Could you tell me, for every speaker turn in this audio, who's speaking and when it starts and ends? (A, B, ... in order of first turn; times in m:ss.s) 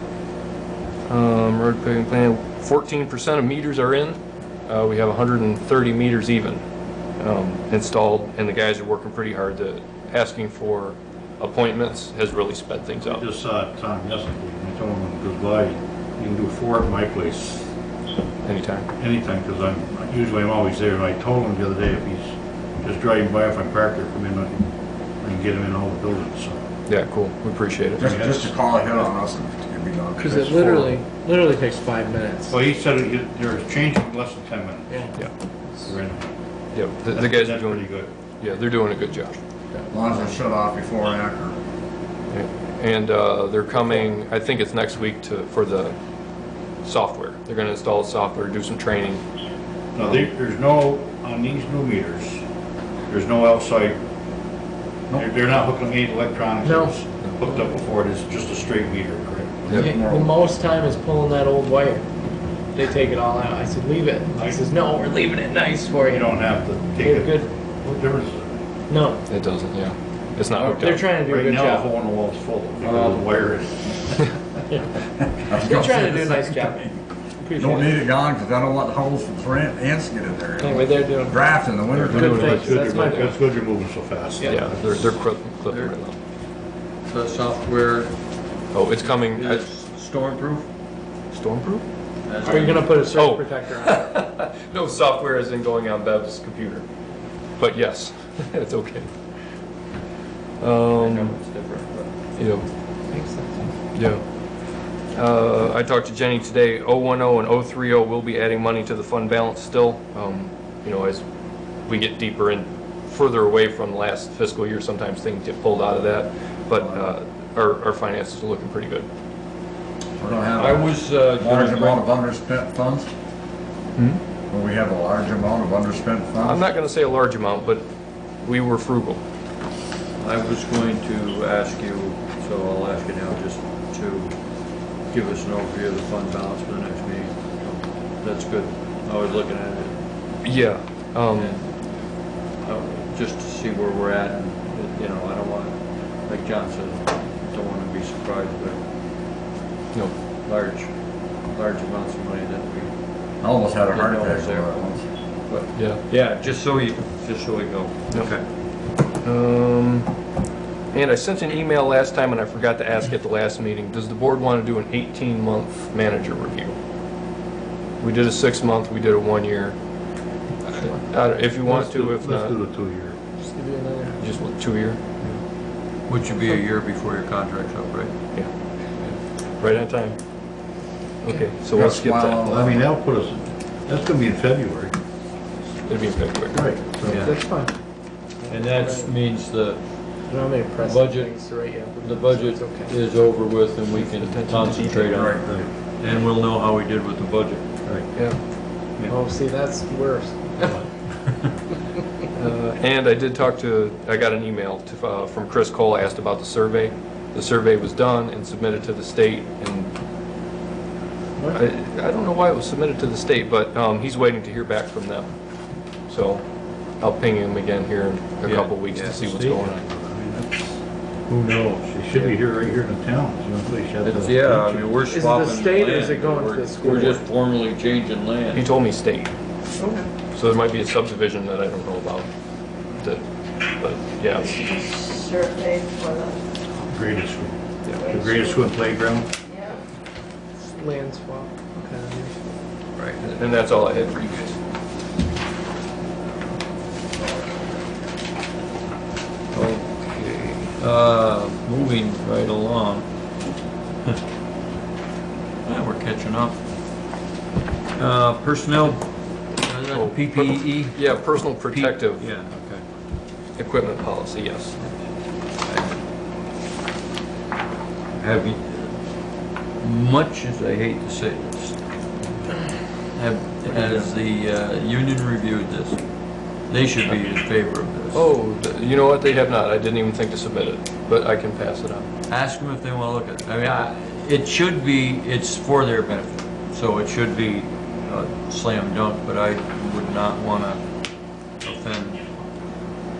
0:01.0-0:06.6 A
0:07.2-0:13.2 A
0:13.0-0:17.7 B
0:18.4-0:18.9 A
0:19.0-0:24.6 B
0:25.2-0:26.6 B
0:26.9-0:28.0 A
0:28.0-0:30.9 C
0:28.0-0:28.5 B
0:30.2-0:32.6 D
0:30.6-0:30.9 B
0:32.5-0:35.1 B
0:35.8-0:36.2 B
0:36.7-0:37.9 A
0:37.1-0:38.1 B
0:38.4-0:39.4 A
0:39.9-0:41.6 C
0:42.3-0:46.0 A
0:46.8-0:49.2 A
0:49.9-0:52.4 B
0:53.1-0:54.0 B
0:55.1-1:00.3 B
0:56.6-0:57.7 D
0:59.7-0:59.9 A
0:59.7-1:02.0 D
1:02.7-1:07.5 D
1:04.3-1:04.6 B
1:05.9-1:08.6 B
1:08.9-1:09.2 D
1:09.3-1:11.1 A
1:10.5-1:14.2 B
1:10.8-1:11.9 D
1:12.8-1:13.4 E
1:15.4-1:16.8 C
1:15.5-1:18.0 D
1:17.6-1:22.6 C
1:20.6-1:21.6 D
1:21.9-1:25.0 B
1:21.9-1:23.3 A
1:22.2-1:23.4 D
1:24.4-1:24.7 D
1:24.4-1:26.2 A
1:24.8-1:26.0 E
1:27.1-1:28.2 E
1:28.7-1:29.6 A
1:29.3-1:30.7 E
1:31.3-1:31.8 A
1:32.2-1:33.0 E
1:32.4-1:34.1 D
1:33.1-1:36.8 A
1:37.6-1:39.1 A
1:40.6-1:41.3 A
1:40.9-1:42.1 E
1:42.4-1:42.6 A
1:43.1-1:43.7 D
1:43.9-1:44.2 A
1:45.1-1:51.2 A
1:51.8-1:59.1 A
1:56.8-1:57.1 C
2:00.2-2:03.1 C
2:00.3-2:02.1 E
2:04.5-2:06.6 C
2:06.4-2:07.9 A
2:08.4-2:09.2 A
2:10.2-2:14.3 E
2:15.1-2:20.0 E
2:20.4-2:21.6 A
2:21.3-2:21.7 E
2:22.6-2:28.8 E
2:30.4-2:30.9 E
2:31.4-2:32.9 E
2:33.4-2:35.0 C
2:33.9-2:34.9 E
2:35.5-2:38.4 E
2:35.7-2:36.0 A
2:39.2-2:40.1 A
2:40.9-2:46.8 A
2:48.0-2:49.8 A
2:50.6-2:52.6 A
2:51.6-2:53.2 B
2:53.4-2:54.4 D
2:54.2-2:55.0 A
2:56.1-2:58.1 E
2:58.3-3:00.2 A
3:01.2-3:02.8 A
3:01.7-3:02.8 C
3:02.4-3:04.9 B
3:05.8-3:06.8 A
3:06.5-3:07.3 B
3:07.0-3:07.4 E
3:07.2-3:07.8 D
3:08.4-3:09.1 D
3:08.5-3:09.8 E
3:10.3-3:13.0 D
3:10.8-3:15.4 E
3:13.9-3:15.3 A
3:15.1-3:15.7 C
3:16.0-3:18.1 E
3:18.1-3:18.4 A
3:19.1-3:20.8 D
3:20.6-3:20.9 B
3:22.3-3:29.9 A
3:31.5-3:35.3 A
3:36.1-3:36.4 A
3:37.0-3:39.8 A
3:38.4-3:39.2 E
3:39.1-3:40.8 B
3:41.3-3:42.4 E
3:41.8-3:45.0 B
3:44.0-3:48.7 E
3:45.0-3:47.2 D
3:48.5-3:49.3 A
3:49.8-3:50.1 D
3:50.3-3:52.3 A
3:52.9-3:54.6 A
3:54.5-3:56.4 F
3:56.8-3:59.3 B
3:58.0-3:58.6 F
4:00.6-4:02.4 D
4:03.2-4:04.6 A
4:09.5-4:13.1 E
4:15.6-4:16.6 E
4:18.0-4:19.0 E
4:19.6-4:22.8 E
4:19.9-4:22.3 A
4:23.6-4:24.8 A
4:25.6-4:26.0 E
4:28.2-4:29.0 E
4:29.8-4:31.8 E
4:33.1-4:36.0 E
4:33.6-4:34.1 A
4:36.7-4:38.3 E
4:38.1-4:42.1 A
4:42.3-4:50.8 E
4:51.6-4:52.3 E